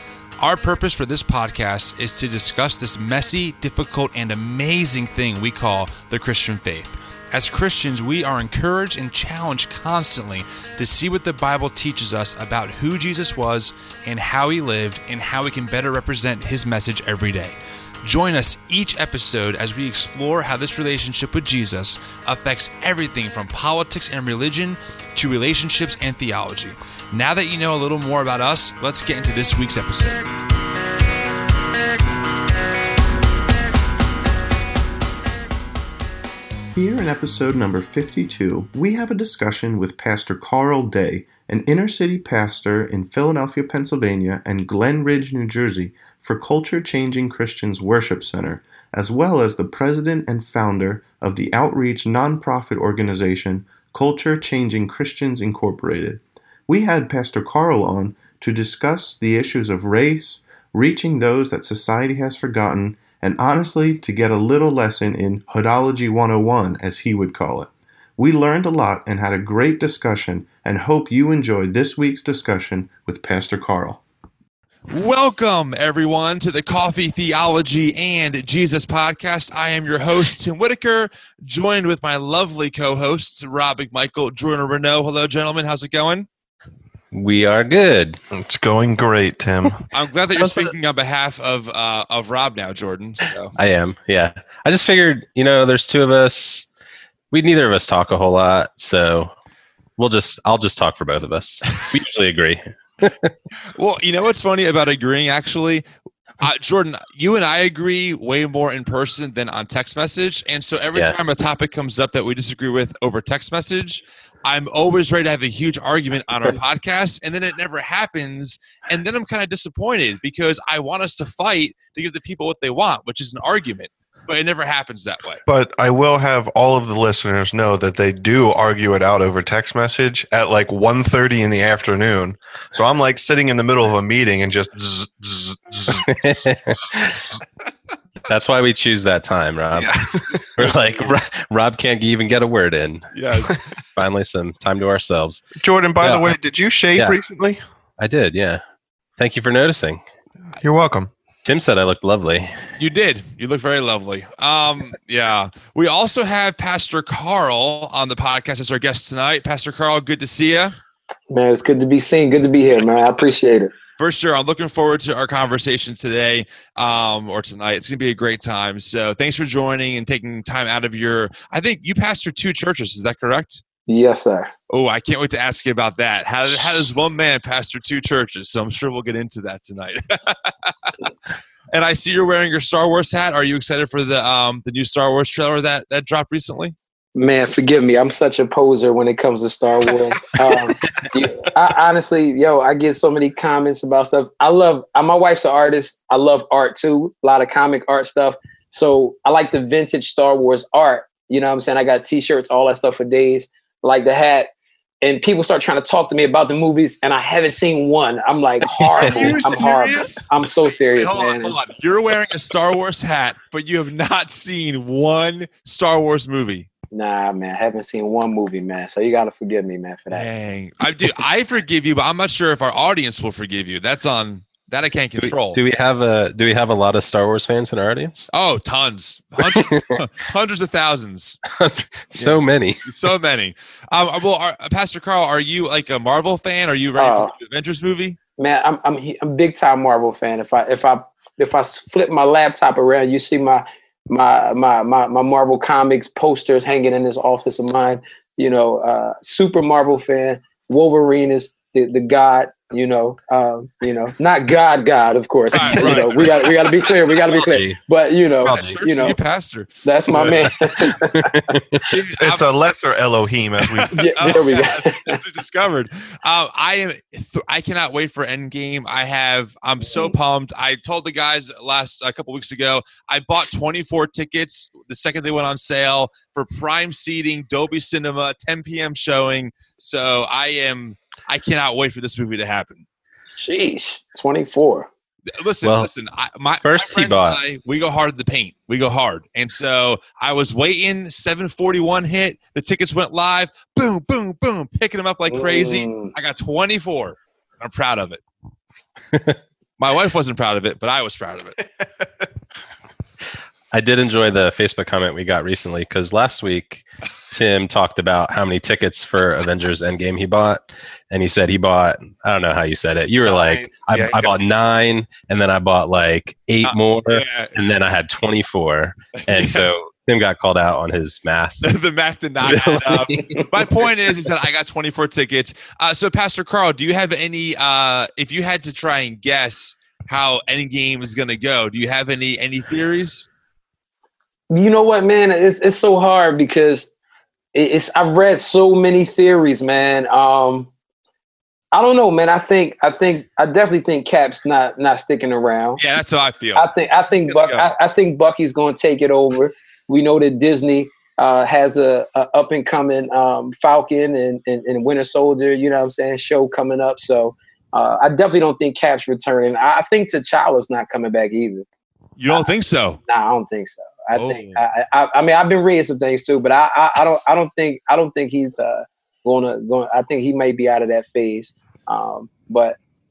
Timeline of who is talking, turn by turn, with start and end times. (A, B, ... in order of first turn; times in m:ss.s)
0:00.4-0:30.2 A
0:36.8-1:14.0 B
1:14.9-1:26.3 A
1:27.1-1:28.2 C
1:28.3-1:29.8 D
1:29.9-1:33.5 A
1:33.6-1:36.7 C
1:37.3-1:39.3 C
1:40.0-1:43.3 C
1:43.7-1:45.8 A
1:46.4-2:05.4 A
2:05.4-2:17.3 D
2:15.9-2:17.3 C
2:18.3-2:23.1 C
2:19.8-2:20.7 D
2:23.1-2:23.6 A
2:24.0-2:25.5 C
2:25.6-2:27.6 D
2:26.0-2:26.4 C
2:28.0-2:28.6 C
2:29.2-2:30.0 C
2:30.6-2:31.1 D
2:31.4-2:32.6 C
2:32.8-2:40.8 A
2:41.3-2:43.7 E
2:44.0-2:53.6 A
2:53.9-2:54.5 E
2:54.7-3:01.0 A
3:01.7-3:06.8 A
3:07.2-3:24.5 E
3:25.0-3:31.6 E
3:28.9-3:30.3 A
3:29.0-3:29.4 C
3:30.9-3:36.7 A
3:36.9-3:40.3 E
3:40.1-3:45.6 A
3:45.2-3:48.3 C
3:48.3-3:51.4 A
3:49.4-3:49.8 C
3:51.5-3:52.8 C
3:52.2-3:58.2 A
3:57.0-3:57.3 E
3:58.4-4:19.2 E
4:15.5-4:16.9 A
4:17.3-4:17.8 C
4:18.4-4:18.8 C
4:18.4-4:19.7 A
4:19.8-4:21.2 E
4:20.9-4:21.8 C
4:21.8-4:22.5 A
4:22.2-4:24.0 D
4:23.7-4:42.8 A
4:23.9-4:25.2 E
4:29.8-4:30.2 E
4:43.4-4:44.9 E
4:45.4-4:58.2 A
4:45.6-4:45.9 C
4:46.6-4:47.4 C
4:55.3-4:56.1 E
4:59.8-5:01.6 A
5:03.7-5:21.6 C
5:13.2-5:14.3 D
5:16.6-5:17.5 A
5:19.2-5:19.7 A
5:21.6-5:33.3 A
5:22.4-5:23.4 C
5:34.5-5:36.9 E
5:37.5-5:40.7 E
5:41.7-5:45.8 E
5:45.8-5:46.7 A
5:46.6-6:01.6 E
5:47.3-5:47.7 A
6:02.2-6:03.0 A
6:03.0-6:12.8 E
6:04.2-6:04.6 A